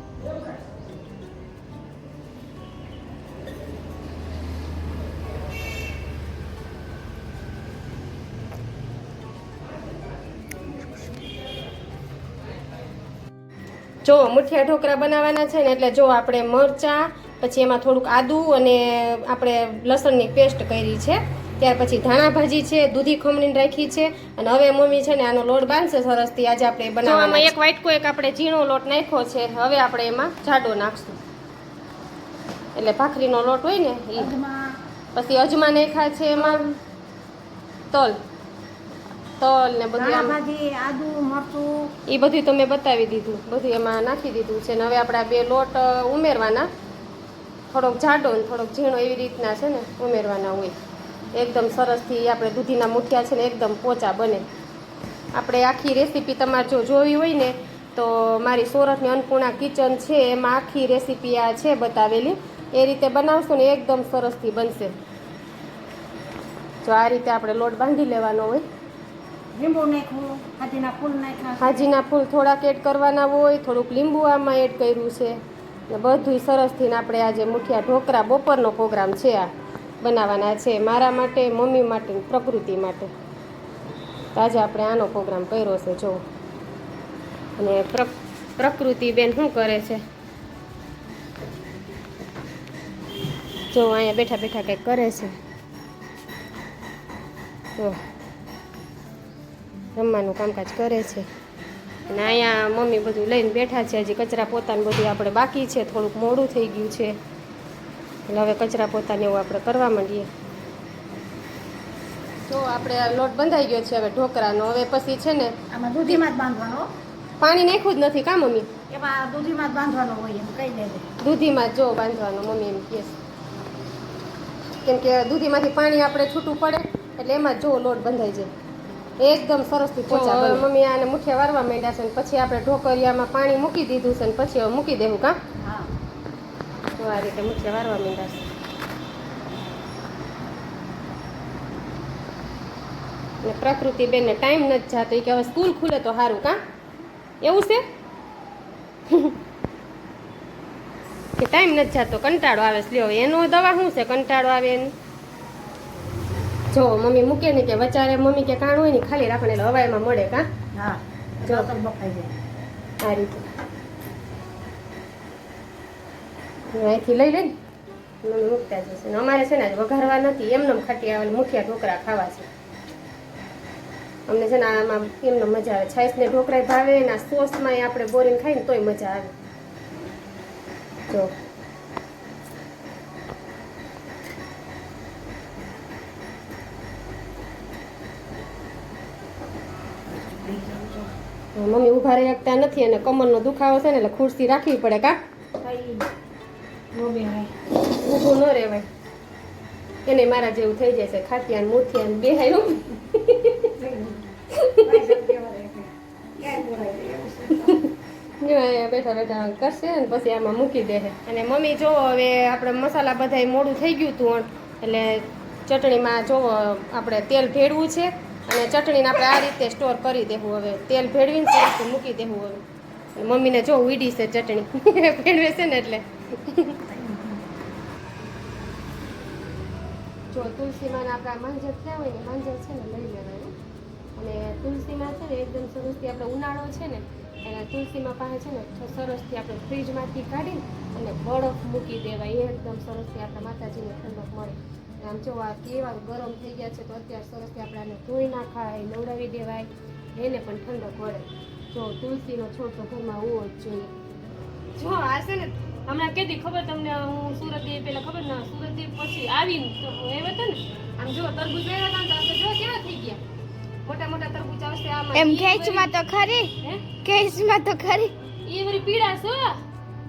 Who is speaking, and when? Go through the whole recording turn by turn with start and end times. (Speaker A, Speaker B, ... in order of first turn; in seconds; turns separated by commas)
Speaker A: 14.0-31.2, Speaker A: 32.8-34.3, Speaker B: 34.1-34.8, Speaker A: 35.1-36.6, Speaker B: 36.4-36.8, Speaker A: 37.9-38.2, Speaker A: 39.4-40.4, Speaker B: 40.0-41.9, Speaker A: 42.1-46.7, Speaker A: 47.7-50.7, Speaker A: 51.4-54.5, Speaker A: 55.3-64.9, Speaker A: 66.8-68.7, Speaker B: 69.5-71.9, Speaker A: 71.6-79.5, Speaker A: 80.0-83.1, Speaker A: 84.3-86.2, Speaker A: 87.6-90.0, Speaker A: 93.7-95.4, Speaker A: 100.0-101.3, Speaker A: 102.1-107.2, Speaker A: 108.3-110.3, Speaker A: 112.5-116.2, Speaker B: 115.7-116.9, Speaker A: 117.4-118.7, Speaker B: 118.9-121.0, Speaker A: 121.2-123.2, Speaker A: 124.8-128.5, Speaker A: 129.2-135.4, Speaker B: 130.1-130.6, Speaker B: 135.6-135.9, Speaker A: 136.9-138.5, Speaker A: 143.4-146.6, Speaker A: 147.4-147.8, Speaker A: 151.4-154.9, Speaker A: 156.7-160.5, Speaker B: 160.7-162.3, Speaker A: 163.0-163.4, Speaker A: 166.7-167.6, Speaker A: 168.2-172.5, Speaker A: 174.3-179.3, Speaker B: 190.2-191.1, Speaker A: 191.6-195.2, Speaker B: 195.6-196.1, Speaker B: 196.9-197.5, Speaker A: 198.0-198.9, Speaker A: 200.1-203.7, Speaker B: 203.8-204.2, Speaker A: 204.5-205.2, Speaker B: 204.8-207.8, Speaker A: 208.4-222.6, Speaker A: 223.2-226.8, Speaker B: 226.9-227.4, Speaker A: 230.3-233.5, Speaker A: 234.2-253.9, Speaker A: 254.8-263.2, Speaker A: 263.9-265.9, Speaker C: 265.1-268.1, Speaker A: 266.6-266.9, Speaker A: 268.4-269.6